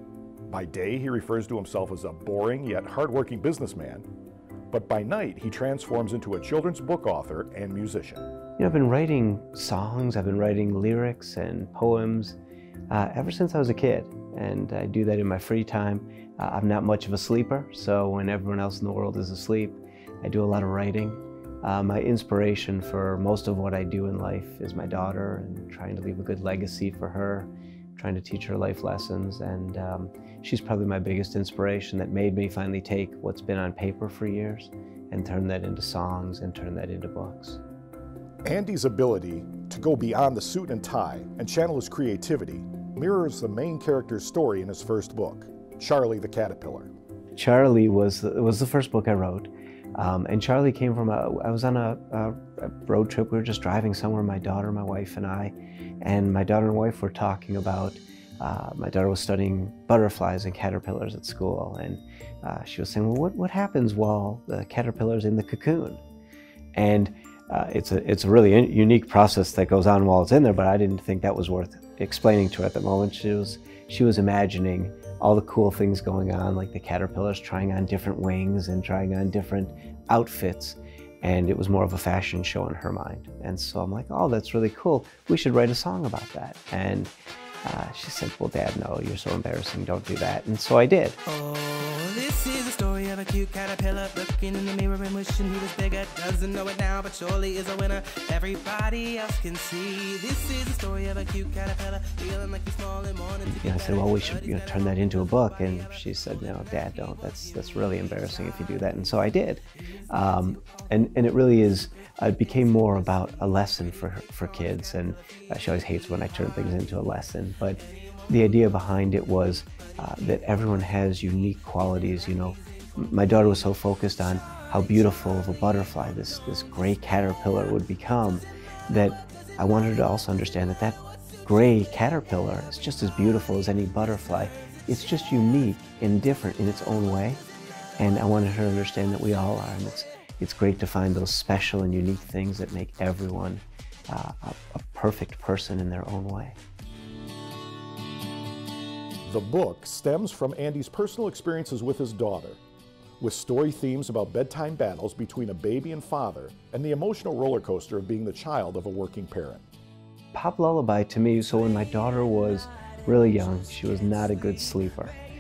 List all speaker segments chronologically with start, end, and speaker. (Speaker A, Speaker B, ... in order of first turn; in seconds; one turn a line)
Speaker A: 0.5-4.1
Speaker A: 4.7-8.3
Speaker B: 8.6-12.4
Speaker B: 12.9-37.6
Speaker A: 38.5-46.9
Speaker B: 47.4-66.0
Speaker B: 66.8-91.2
Speaker C: 91.3-104.8
Speaker B: 103.5-137.4
Speaker B: 138.0-146.6
Speaker A: 149.3-152.6
Speaker A: 153.2-159.7
Speaker B: 160.3-165.2